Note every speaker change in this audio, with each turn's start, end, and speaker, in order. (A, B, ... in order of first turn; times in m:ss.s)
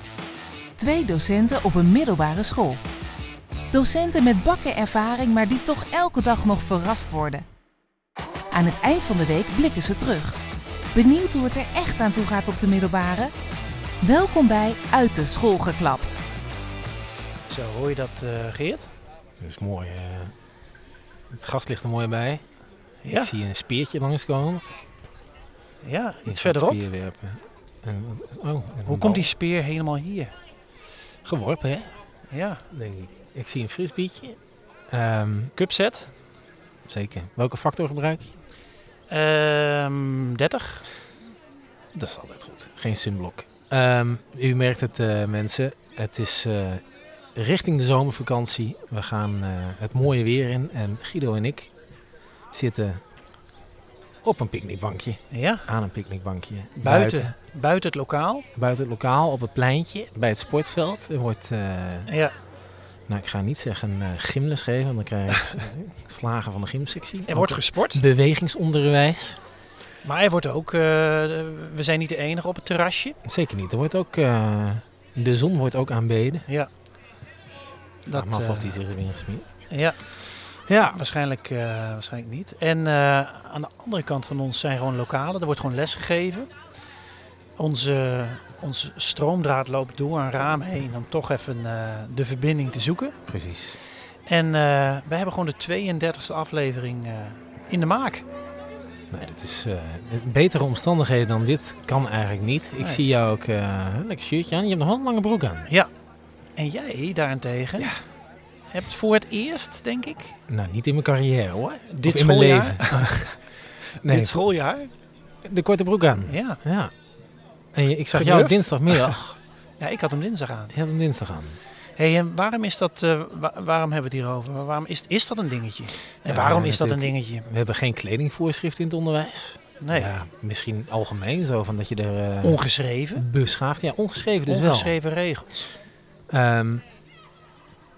0:00.8-0:02.8 A
0:03.7-0:07.4 A
0:08.5-0:10.4 A
0:10.9-0:13.3 A
0:14.0-0:16.2 A
0:17.5-0:18.9 B
0:19.4-0:20.4 C
0:21.3-0:22.4 C
0:23.0-0:23.3 B
0:23.0-0:24.6 C
0:25.8-0:26.8 B
0:26.3-0:29.3 C
0:28.9-0:30.3 B
0:31.2-0:32.0 C
0:32.3-0:32.6 B
0:32.7-0:34.4 C
0:34.9-0:35.5 C
0:35.6-0:36.1 B
0:36.9-0:38.3 C
0:39.1-0:40.9 B
0:42.0-0:46.8 C
0:47.4-0:51.7 C
0:52.5-0:53.0 C
0:54.2-0:57.3 C
0:55.3-0:55.7 B
0:56.8-0:58.5 B
0:58.6-1:02.1 C
1:02.1-1:02.3 B
1:03.1-1:09.4 C
1:07.3-1:08.0 B
1:10.0-1:13.2 B
1:13.2-1:16.5 C
1:18.1-1:18.8 B
1:18.1-1:19.6 C
1:19.7-1:26.5 B
1:20.7-1:21.0 C
1:27.6-1:33.2 B
1:33.3-1:33.8 C
1:33.8-1:38.3 B
1:39.1-1:45.7 C
1:42.8-1:43.0 B
1:46.6-1:48.0 B
1:48.7-1:50.4 B
1:50.5-1:53.5 C
1:51.9-1:53.4 B
1:54.0-1:54.9 B
1:54.0-1:54.4 C
1:55.4-1:56.9 C
1:56.3-1:56.6 B
1:57.7-1:59.4 C
1:58.1-1:59.2 B
1:59.8-2:00.8 B
2:00.7-2:01.6 C
2:02.0-2:07.5 B
2:06.3-2:12.6 C
2:09.8-2:10.1 B
2:12.4-2:13.3 B
2:13.2-2:15.0 C
2:14.5-2:15.7 B
2:16.3-2:16.8 C